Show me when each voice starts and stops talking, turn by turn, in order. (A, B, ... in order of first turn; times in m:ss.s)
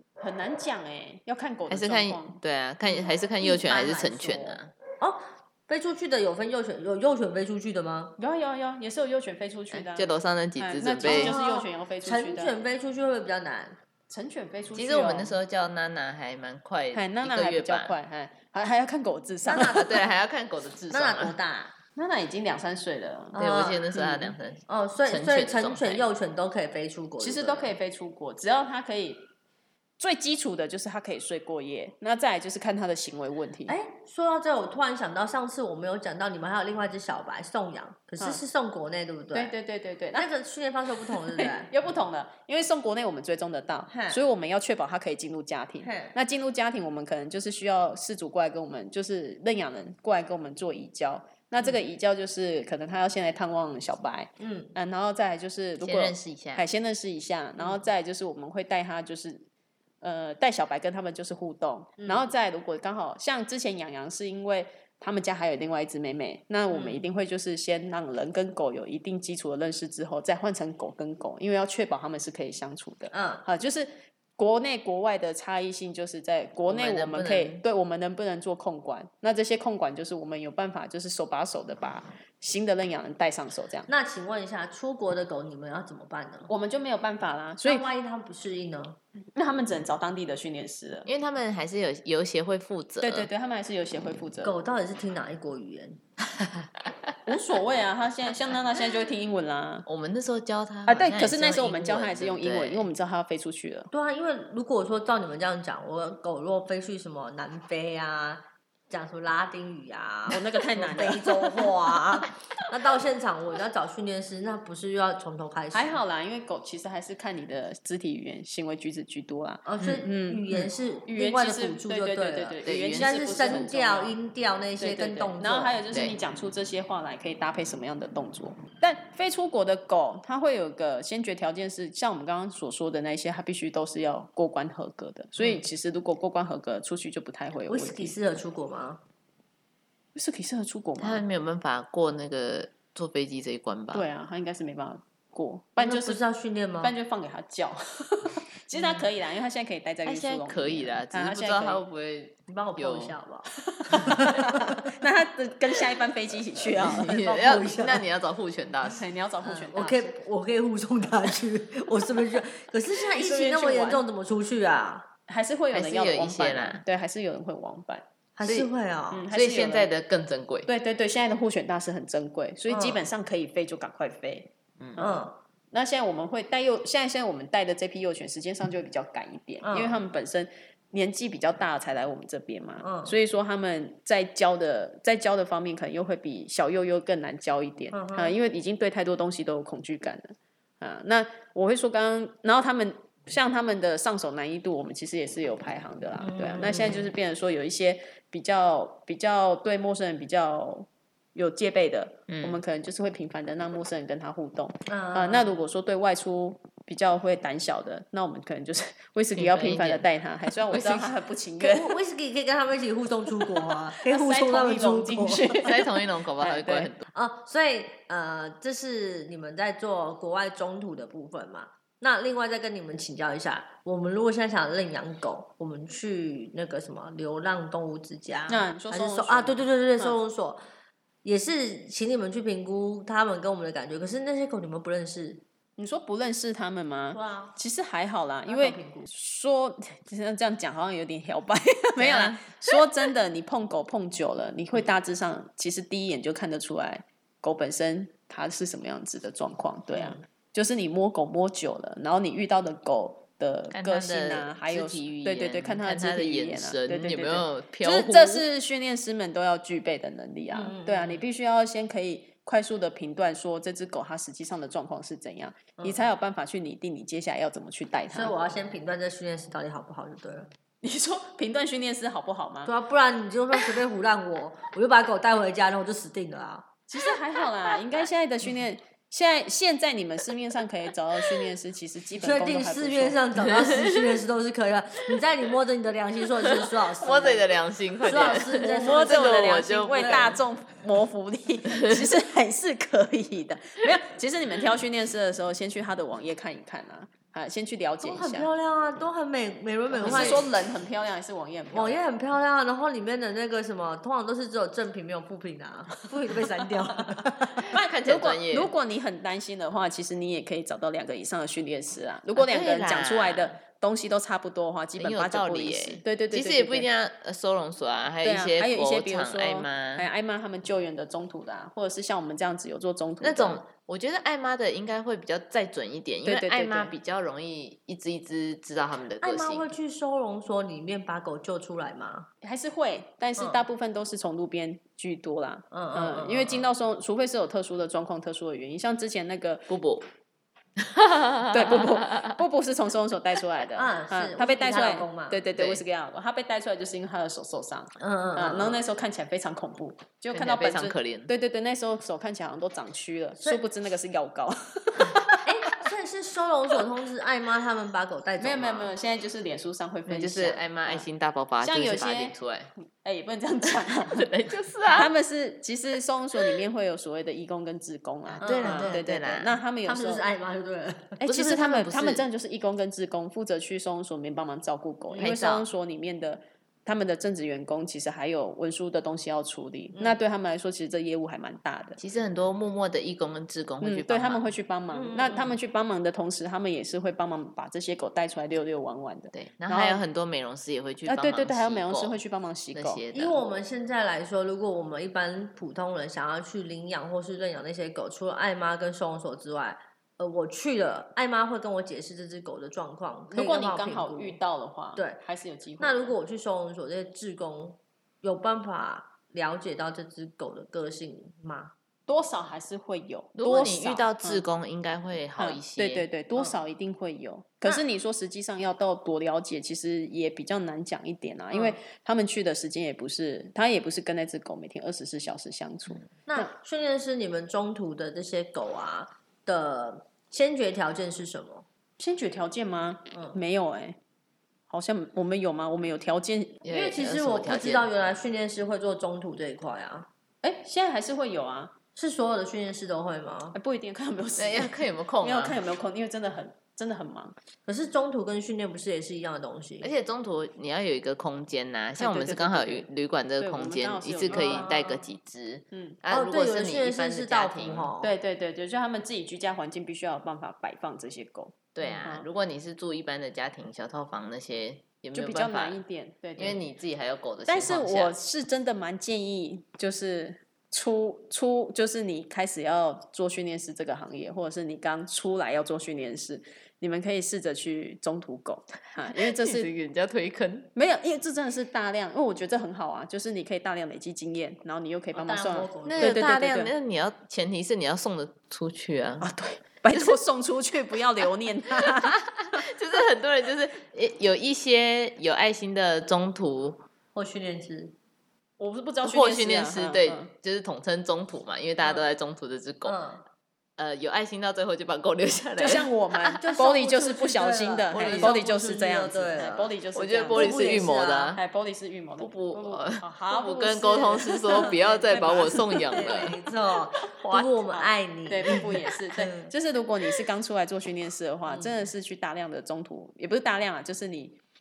0:00.2-0:02.4 A
0:01.7-0:04.7 B
0:02.9-0:08.2 C
0:08.2-0:12.6 A
0:09.7-0:11.4 B
0:11.0-0:13.8 C
0:14.1-0:15.4 A
0:14.7-0:17.9 B
0:16.9-0:19.9 A
0:19.4-0:20.0 C
0:19.6-0:21.3 B
0:20.9-0:21.8 C
0:22.0-0:23.4 A
0:23.3-0:23.8 C
0:23.4-0:26.0 B
0:23.9-0:24.3 A
0:24.7-0:27.7 C
0:27.2-0:29.3 A
0:30.0-0:33.7 A
0:33.7-0:39.5 C
0:39.3-0:40.3 A
0:40.2-0:41.7 C
0:41.1-0:59.4 A
0:43.9-0:44.2 C
0:45.8-0:46.1 C
0:54.4-0:54.7 C
0:55.8-0:56.6 B
1:00.0-1:23.9 A
1:02.0-1:02.2 C
1:06.7-1:07.0 C
1:13.1-1:13.4 C
1:16.7-1:17.6 B
1:23.9-1:26.5 C
1:26.5-1:27.8 A
1:27.6-1:29.0 C
1:29.3-1:31.1 A
1:31.0-1:33.3 B
1:33.0-1:34.5 A
1:34.4-1:36.0 C
1:37.2-1:39.8 A
1:39.8-1:42.9 B
1:40.9-1:43.9 A
1:43.9-1:56.0 C
1:50.3-1:51.7 A
1:55.7-2:04.1 A
1:59.6-2:05.8 C
2:02.6-2:03.8 B
2:04.8-2:18.1 A
2:17.7-2:19.0 C
2:20.1-2:21.2 A
2:21.0-2:24.0 B
2:23.9-2:26.2 A
2:25.8-2:26.9 C
2:26.8-2:31.8 A
2:30.0-2:33.2 B
2:32.5-2:34.9 C
2:33.7-2:37.2 A
2:36.7-2:38.0 C
2:36.8-2:39.0 B
2:38.9-2:40.1 A
2:39.4-2:45.1 C
2:43.0-2:44.0 A
2:45.3-2:48.0 A
2:45.7-2:46.8 B
2:48.4-2:49.2 C
2:49.1-2:49.9 A
2:49.3-2:50.7 B
2:50.7-3:32.0 A
2:52.7-2:53.0 C
2:55.0-2:55.4 C
2:59.6-3:00.0 C
3:02.8-3:03.1 C
3:07.9-3:08.4 C
3:16.2-3:17.1 C
3:22.3-3:22.6 B
3:24.9-3:25.5 C
3:29.4-3:30.0 B
3:30.7-3:31.1 B
3:31.6-3:35.7 C
3:33.4-3:36.9 A
3:35.6-3:37.0 B
3:37.1-3:50.6 C
3:48.5-3:50.1 A
3:51.2-3:55.4 C
3:55.8-4:28.3 A
3:57.1-3:57.6 C
3:58.5-3:59.1 C
4:02.0-4:02.4 B
4:13.7-4:18.4 B
4:20.5-4:21.2 C
4:28.1-4:30.5 C
4:30.8-4:32.7 A
4:32.6-4:36.7 C
4:36.9-4:43.2 A
4:42.2-4:47.5 C
4:43.4-4:44.2 B
4:46.5-4:50.4 B
4:48.0-4:50.3 C
4:48.3-4:58.5 A
4:51.7-4:52.0 B
4:58.0-5:00.4 C
5:00.0-5:02.0 A
5:01.7-5:07.7 C
5:07.6-5:08.7 B
5:07.7-5:16.9 A
5:12.4-5:13.6 B
5:15.0-5:20.0 B
5:18.2-5:23.6 A
5:23.2-5:29.8 B
5:26.2-5:26.9 A
5:29.2-5:32.3 C
5:32.4-5:39.7 A
5:35.7-5:36.6 C
5:39.7-5:40.0 B
5:40.8-5:42.4 B
5:41.5-5:55.3 A
5:43.7-5:45.4 C
5:45.6-5:45.8 B
5:48.0-5:48.8 C
5:50.3-5:51.3 B
5:55.0-5:55.4 B
5:55.4-5:58.9 C
5:58.4-6:01.1 A
6:00.1-6:02.7 B
6:01.6-6:02.3 A
6:03.0-6:04.3 A
6:03.6-6:05.1 B
6:04.9-6:10.2 A
6:08.4-6:09.0 C
6:08.4-6:09.6 B
6:09.8-6:11.2 C
6:11.2-6:22.0 A
6:11.3-6:12.2 B
6:15.2-6:15.7 B
6:22.0-6:24.4 B
6:23.8-6:30.0 A
6:24.9-6:25.6 C
6:29.3-6:32.2 B
6:31.0-6:33.0 A
6:32.7-6:33.4 B
6:33.1-6:44.4 C
6:43.3-6:46.1 A
6:45.8-6:51.7 C
6:52.1-6:54.4 A
6:53.4-6:56.0 B
6:55.4-7:06.5 A
7:01.5-7:01.8 C
7:06.2-7:11.6 C
7:12.0-7:14.0 A
7:13.1-7:13.4 C
7:14.7-7:16.6 A
7:16.6-7:17.9 B
7:16.7-7:20.1 C
7:20.4-7:21.7 A
7:22.0-7:23.6 C
7:23.5-7:27.3 A
7:24.4-7:25.6 B
7:27.7-7:29.9 C
7:29.8-7:37.9 B
7:32.0-7:32.8 A
7:33.4-7:34.9 A
7:34.3-7:35.0 C
7:35.7-7:36.0 A
7:36.1-7:38.1 C
7:38.0-7:42.3 A
7:41.7-7:45.8 B
7:45.1-7:46.6 A
7:46.4-7:48.1 B
7:47.5-7:59.7 A
7:59.1-8:00.7 B
8:00.7-8:06.7 A
8:05.1-8:06.3 C
8:05.8-8:09.3 B
8:09.2-8:12.6 A
8:11.7-8:16.8 B
8:17.1-8:17.9 C
8:18.6-8:20.3 A
8:19.0-8:23.0 B
8:22.8-8:23.2 C
8:23.8-8:26.4 B
8:25.6-8:36.3 A
8:26.4-8:29.7 C
8:27.9-8:28.3 B
8:29.9-8:31.4 B
8:30.3-8:31.3 C
8:32.2-8:37.9 B
8:34.4-8:39.5 C
8:38.3-8:44.4 A